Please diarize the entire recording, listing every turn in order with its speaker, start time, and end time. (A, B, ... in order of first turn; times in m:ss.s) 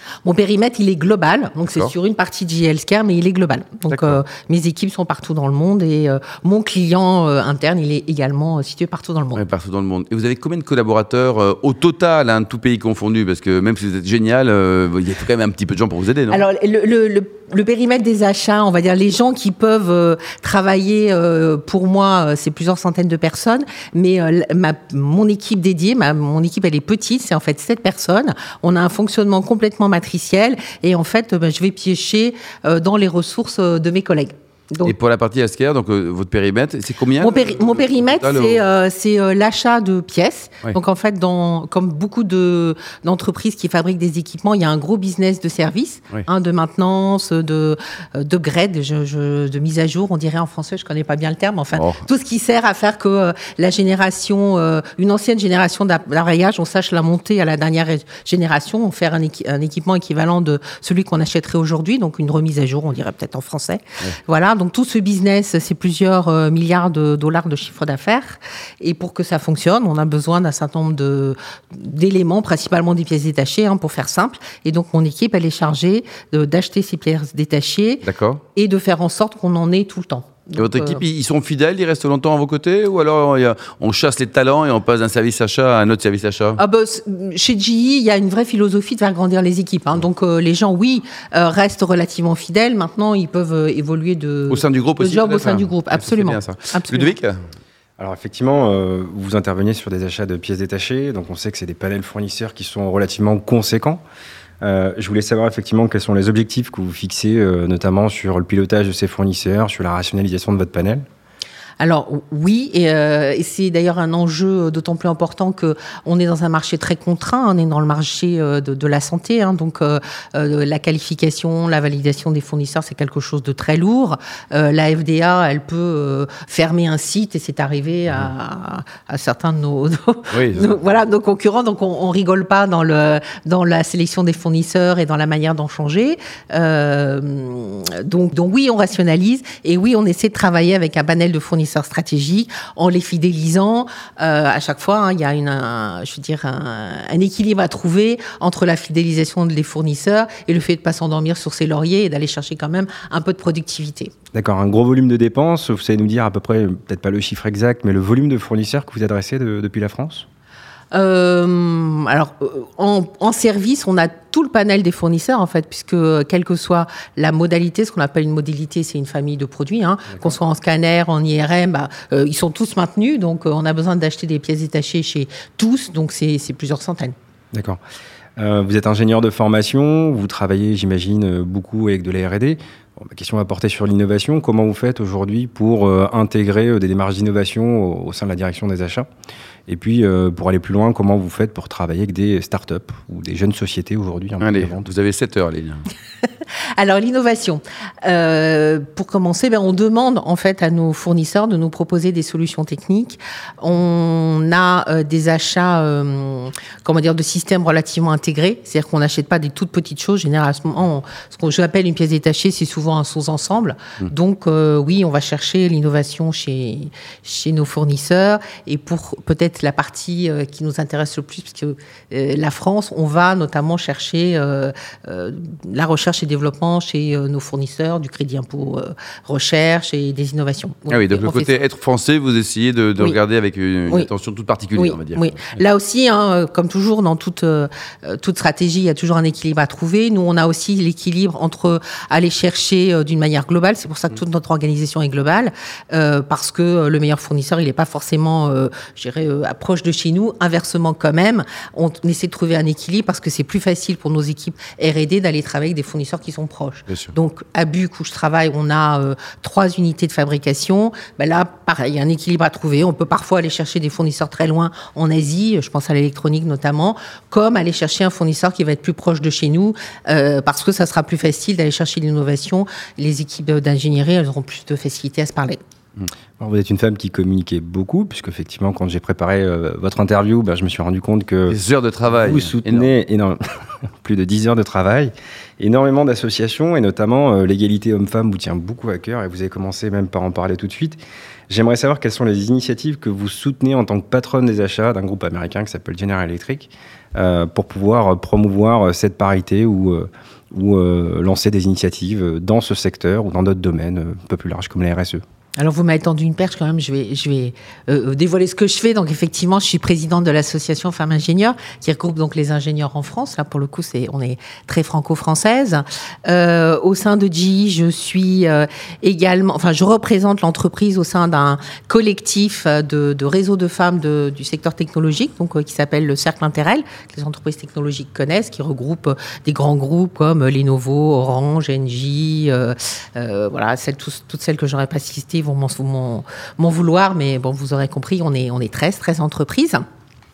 0:00.2-0:09.4 A
0:01.6-0:01.9 B
0:03.9-0:04.2 B
0:09.3-0:16.4 B
0:16.3-0:34.9 A
0:34.8-0:38.6 B
0:37.2-1:21.0 A
0:51.7-0:52.0 B
1:18.0-1:18.4 B
1:20.6-1:26.6 B
1:26.6-1:37.2 A
1:34.5-1:37.4 B
1:38.0-1:44.0 C
1:44.6-1:51.0 C
1:51.8-2:34.1 A
2:10.3-2:10.8 B
2:34.3-2:40.2 C
2:40.9-2:57.1 A
2:50.1-2:50.4 C
2:57.5-2:57.8 C
2:58.4-3:09.1 C
3:09.7-3:14.9 C
3:14.4-3:15.8 B
3:16.8-3:51.5 A
3:50.9-3:55.4 B
3:54.7-4:35.6 A
4:16.9-4:17.1 B
4:36.4-4:41.6 C
4:41.5-4:42.9 B
4:42.2-4:43.4 C
4:44.0-4:51.0 C
4:51.5-5:05.2 C
5:05.6-5:39.8 A